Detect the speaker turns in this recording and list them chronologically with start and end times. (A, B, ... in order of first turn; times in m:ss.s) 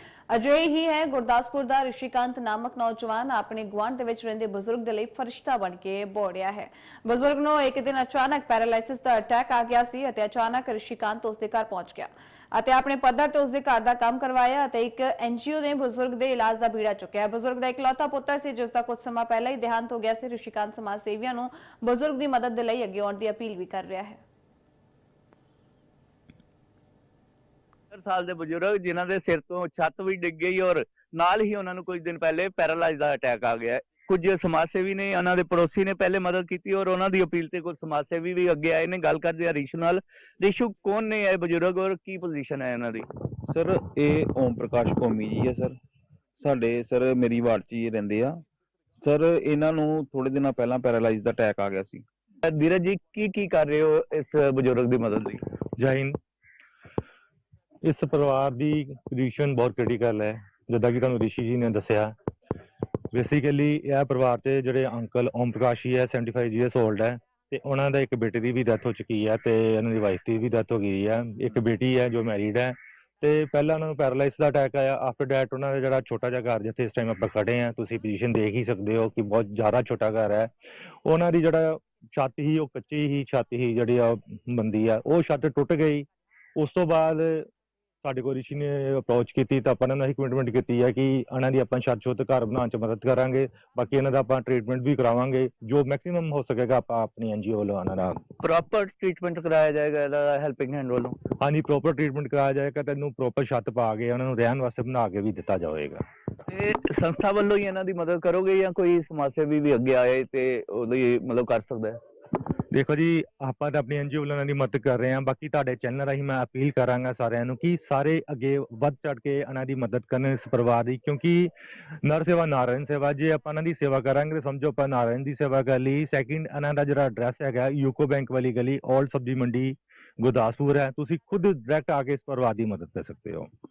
0:00.3-0:24.2 A
0:27.9-0:43.1 B
0:43.5-0:45.8 C
0:46.4-0:48.4 C
0:49.0-0:52.1 C
0:52.4-0:55.4 B
0:55.8-0:56.2 D
0:57.8-1:02.1 D
1:03.1-1:20.5 D
1:21.0-1:27.5 D
1:28.0-1:38.2 D
1:38.4-1:41.2 B
1:41.4-1:46.0 D
1:46.5-1:52.0 B
1:52.7-2:01.5 D
2:02.0-2:13.5 D